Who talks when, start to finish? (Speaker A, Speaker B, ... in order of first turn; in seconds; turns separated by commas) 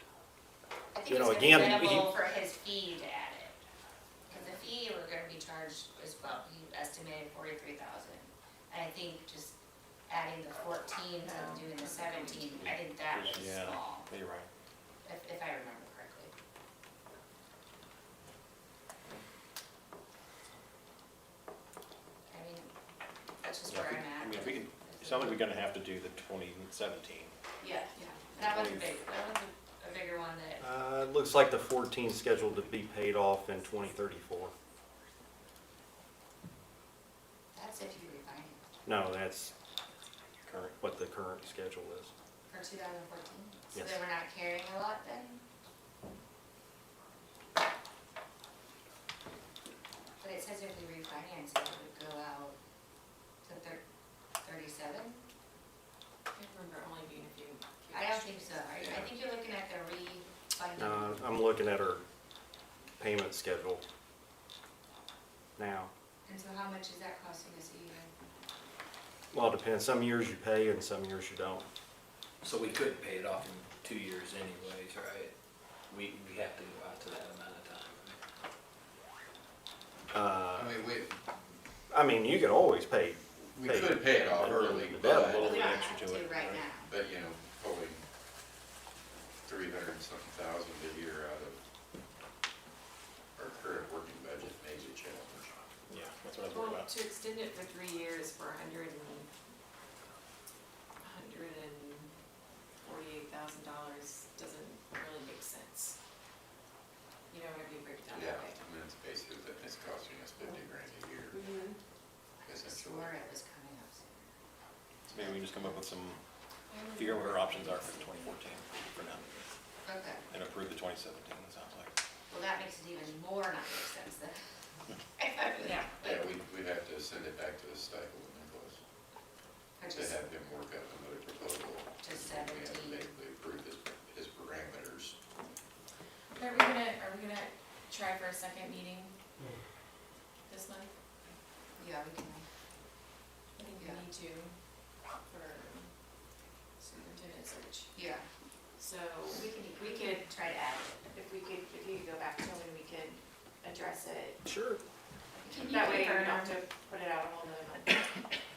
Speaker A: 0.9-3.5, Speaker B: 1.1-2.2, Speaker A: 4.3-9.6, Speaker A: 10.1-14.1, Speaker C: 11.2-12.4, Speaker D: 13.1-14.5, Speaker A: 15.0-16.3, Speaker A: 22.3-22.7, Speaker A: 23.4-25.4, Speaker D: 23.7-27.3, Speaker C: 27.6-28.1, Speaker A: 28.0-30.6, Speaker D: 28.4-28.9, Speaker B: 30.6-34.5, Speaker A: 37.5-38.6, Speaker B: 38.8-39.5, Speaker B: 40.5-42.1, Speaker A: 42.5-45.4, Speaker A: 50.2-52.6, Speaker A: 53.4-53.8, Speaker A: 54.4-55.2, Speaker C: 56.3-58.6, Speaker A: 57.9-61.2, Speaker E: 58.8-59.1, Speaker B: 60.8-62.0, Speaker B: 63.0-63.8, Speaker B: 65.6-65.9, Speaker A: 66.2-68.1, Speaker B: 69.3-71.6, Speaker F: 72.4-75.3, Speaker F: 75.9-78.2, Speaker B: 80.1-80.8, Speaker E: 80.5-81.2, Speaker B: 81.9-85.6, Speaker E: 83.5-85.5, Speaker D: 84.5-86.7, Speaker A: 85.4-86.9, Speaker E: 86.8-88.0, Speaker E: 89.5-91.6, Speaker E: 93.3-95.5, Speaker D: 95.9-96.9, Speaker C: 96.5-99.3, Speaker C: 101.0-102.1, Speaker C: 102.8-106.0, Speaker C: 107.3-108.6, Speaker E: 108.1-111.5, Speaker C: 111.3-111.8, Speaker E: 112.4-113.1, Speaker A: 112.5-114.3, Speaker A: 115.1-115.8, Speaker D: 115.1-116.2, Speaker C: 116.7-118.3, Speaker D: 116.8-119.4, Speaker A: 119.8-120.2, Speaker D: 120.3-121.9, Speaker A: 122.3-124.4, Speaker A: 125.2-126.2, Speaker C: 125.6-125.9, Speaker E: 126.0-128.8, Speaker A: 129.8-130.2, Speaker E: 129.9-135.2, Speaker A: 132.0-133.1, Speaker C: 136.3-139.1, Speaker C: 140.5-140.9, Speaker A: 141.8-142.4, Speaker C: 143.6-144.5, Speaker C: 145.2-145.9, Speaker C: 146.8-148.0, Speaker A: 147.9-148.2, Speaker C: 148.8-150.2, Speaker A: 149.3-151.0, Speaker C: 151.1-154.4, Speaker B: 154.4-154.8, Speaker A: 155.3-156.5, Speaker E: 155.5-155.9, Speaker C: 155.6-157.9